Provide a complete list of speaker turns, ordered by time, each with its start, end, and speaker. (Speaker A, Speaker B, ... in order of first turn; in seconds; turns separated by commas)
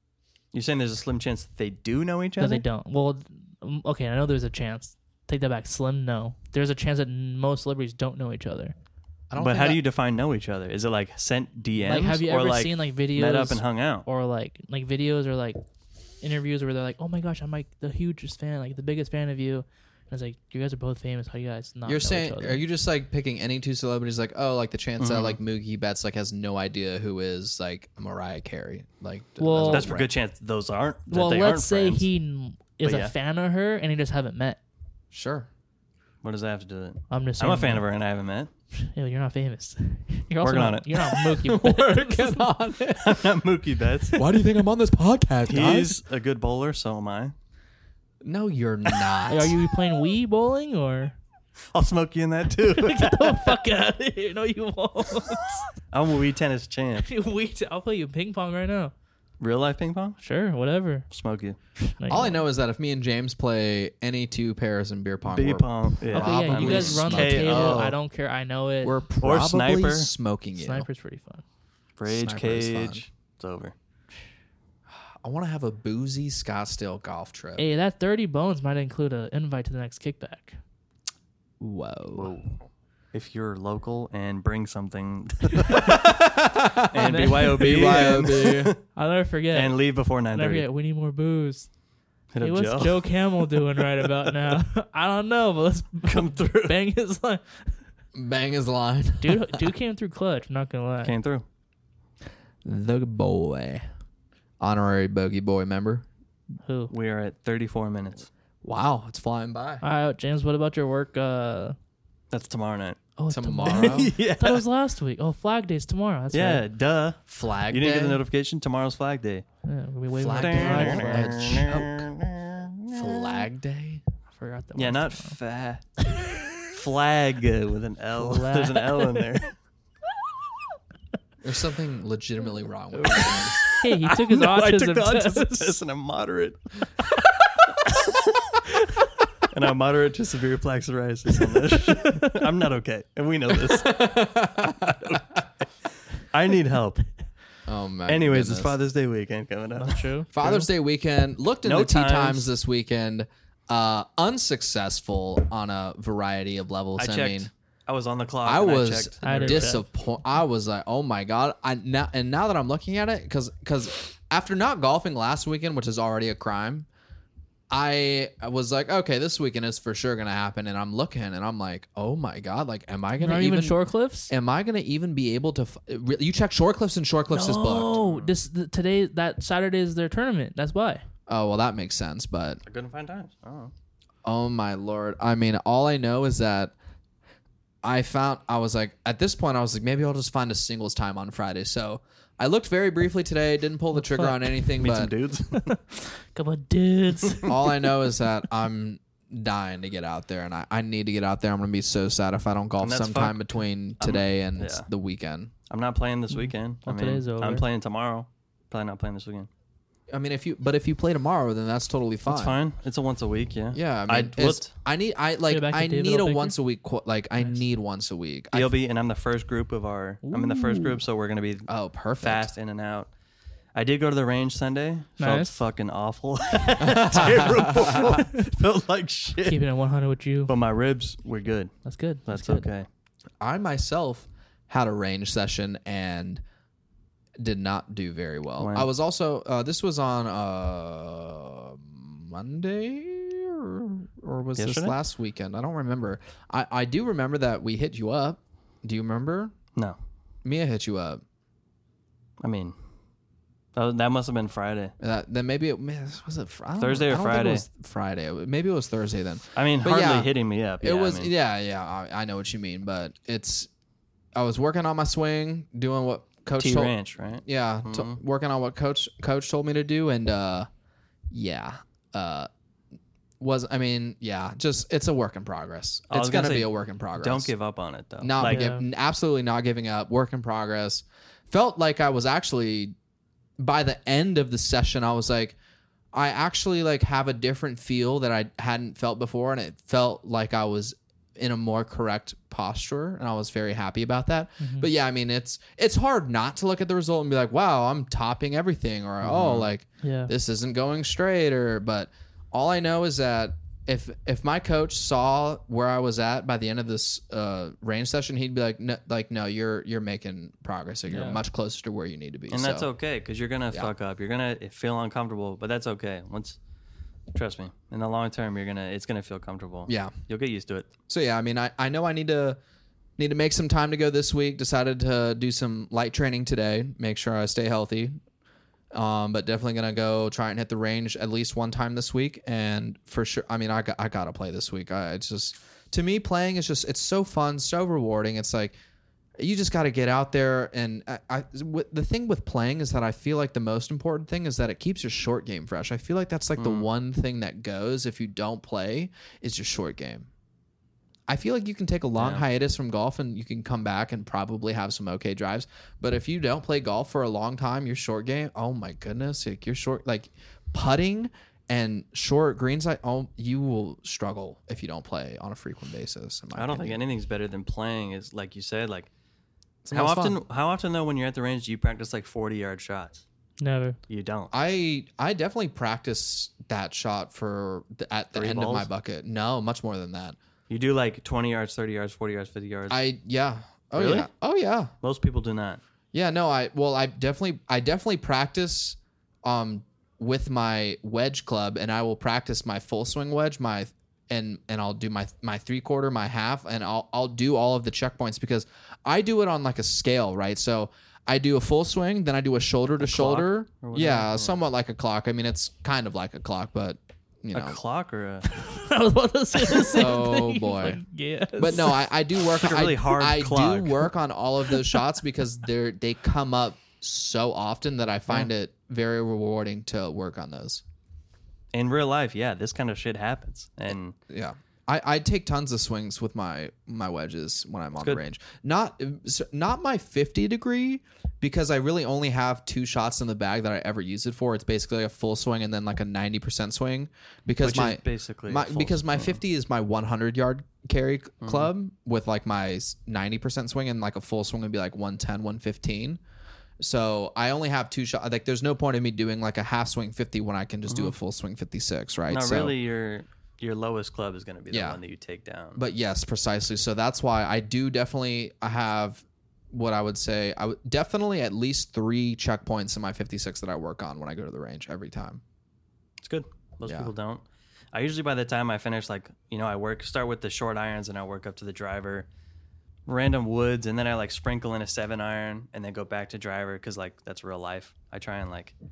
Speaker A: 0.5-2.7, Speaker B: 2.4-8.8, Speaker C: 9.3-9.8, Speaker A: 9.4-14.1, Speaker B: 11.8-15.6, Speaker B: 16.2-22.6, Speaker C: 21.9-30.1, Speaker A: 25.0-25.4, Speaker B: 29.4-29.9, Speaker A: 29.6-32.1, Speaker B: 31.1-34.6, Speaker A: 32.8-33.1, Speaker C: 35.1-35.5, Speaker A: 36.2-38.5, Speaker B: 37.1-37.9, Speaker B: 38.7-42.5, Speaker A: 40.4-41.2, Speaker C: 41.4-43.3, Speaker A: 43.0-44.2, Speaker C: 44.2-46.0, Speaker A: 45.5-47.3, Speaker C: 48.2-49.5, Speaker B: 49.3-51.2, Speaker A: 51.7-53.5, Speaker B: 52.8-55.6, Speaker A: 55.8-57.1, Speaker B: 57.0-58.9, Speaker A: 59.4-60.2, Speaker B: 60.2-61.1, Speaker A: 61.1-61.6, Speaker B: 61.9-62.4, Speaker C: 62.1-67.9, Speaker A: 65.3-68.0, Speaker B: 66.1-69.0, Speaker C: 68.8-70.9, Speaker A: 69.2-70.1, Speaker B: 70.5-71.4, Speaker A: 72.0-73.7, Speaker C: 72.1-73.0, Speaker C: 74.9-77.7, Speaker B: 77.6-80.6, Speaker C: 81.6-82.3, Speaker A: 82.1-82.6, Speaker A: 83.1-86.2, Speaker C: 85.8-88.8, Speaker A: 86.9-88.8, Speaker B: 87.0-88.0, Speaker B: 89.0-91.7, Speaker A: 89.5-90.7, Speaker A: 92.3-93.2, Speaker B: 92.4-97.8, Speaker A: 93.8-94.1, Speaker A: 96.1-96.8, Speaker C: 98.2-99.6, Speaker B: 99.2-101.1, Speaker A: 101.0-101.5, Speaker C: 102.6-103.8, Speaker C: 104.6-106.0, Speaker B: 106.6-106.9, Speaker A: 106.9-108.3, Speaker C: 108.6-109.8, Speaker B: 109.8-111.8, Speaker A: 112.3-113.0, Speaker B: 113.2-116.6, Speaker C: 113.3-114.2, Speaker A: 113.7-114.6, Speaker A: 116.3-119.5, Speaker C: 117.3-118.2, Speaker B: 119.7-121.5, Speaker C: 120.2-122.1, Speaker A: 120.3-123.3, Speaker C: 122.9-124.0, Speaker B: 124.3-125.4, Speaker A: 124.8-125.9, Speaker A: 126.7-129.6, Speaker B: 128.2-129.4, Speaker C: 131.4-133.6, Speaker A: 133.7-136.9, Speaker B: 133.8-135.8, Speaker A: 139.5-144.2, Speaker C: 143.7-145.2, Speaker A: 146.3-147.1, Speaker C: 147.7-148.8, Speaker A: 148.1-150.1, Speaker B: 149.8-150.7, Speaker C: 150.3-157.5, Speaker A: 151.6-152.5, Speaker A: 157.0-159.8, Speaker C: 158.4-166.9, Speaker B: 159.2-159.8, Speaker C: 167.7-178.0, Speaker B: 173.2-174.3, Speaker B: 177.3-181.1, Speaker A: 177.9-178.3, Speaker C: 181.3-182.6, Speaker A: 182.7-183.7, Speaker C: 184.2-186.7, Speaker C: 187.8-195.1, Speaker B: 193.9-194.7, Speaker A: 194.8-195.7, Speaker B: 195.5-197.5, Speaker C: 197.5-205.5, Speaker A: 202.8-204.9, Speaker A: 205.7-209.5, Speaker B: 206.3-207.7, Speaker C: 210.1-212.6, Speaker A: 212.3-214.7, Speaker C: 213.7-218.7, Speaker B: 215.5-216.6, Speaker A: 218.5-223.1, Speaker B: 220.2-221.0, Speaker C: 221.7-222.5, Speaker A: 223.8-229.6, Speaker B: 225.2-225.5, Speaker C: 226.8-228.1, Speaker B: 228.0-228.4, Speaker B: 229.4-230.5, Speaker A: 230.5-231.7, Speaker B: 231.8-232.7, Speaker A: 232.3-232.9, Speaker C: 233.4-236.4, Speaker C: 237.4-249.6, Speaker A: 238.6-238.9, Speaker A: 244.6-244.9, Speaker C: 250.4-251.2, Speaker A: 252.4-252.8, Speaker A: 253.8-254.9, Speaker C: 255.0-260.3, Speaker A: 256.8-257.7, Speaker A: 259.6-261.3, Speaker C: 260.8-263.7, Speaker C: 264.4-270.7, Speaker A: 266.6-268.2, Speaker C: 271.3-272.5, Speaker C: 273.4-277.5, Speaker A: 276.1-278.7, Speaker C: 278.2-282.9, Speaker B: 278.4-278.9, Speaker C: 283.6-285.6, Speaker C: 286.1-312.9, Speaker B: 294.6-294.9, Speaker A: 299.2-299.7, Speaker B: 300.0-300.3, Speaker B: 311.1-311.4, Speaker A: 312.5-316.6, Speaker A: 317.3-320.9, Speaker C: 319.9-320.1, Speaker C: 321.1-322.6, Speaker C: 323.2-328.2, Speaker C: 328.9-338.8, Speaker C: 339.4-350.3, Speaker A: 346.6-346.9, Speaker C: 351.3-367.0, Speaker A: 352.2-352.5, Speaker A: 366.6-369.1, Speaker C: 369.9-370.4, Speaker A: 369.9-373.2, Speaker B: 373.6-374.0, Speaker A: 374.1-374.5, Speaker C: 374.5-380.4, Speaker A: 378.3-378.9, Speaker A: 380.7-383.1, Speaker C: 382.9-384.9, Speaker A: 383.9-384.3, Speaker A: 385.0-385.8, Speaker C: 386.1-407.8, Speaker A: 403.0-404.6, Speaker A: 407.5-408.5, Speaker B: 408.5-412.0, Speaker C: 409.9-411.0, Speaker C: 411.6-420.8, Speaker A: 412.5-414.1, Speaker A: 421.7-424.2, Speaker C: 424.3-446.2, Speaker A: 437.6-439.4, Speaker A: 441.4-441.7, Speaker C: 446.8-452.8, Speaker A: 450.9-451.1, Speaker A: 452.3-455.8, Speaker C: 454.7-455.0, Speaker C: 455.8-465.4, Speaker A: 466.2-472.3, Speaker C: 466.8-467.1, Speaker A: 473.1-478.7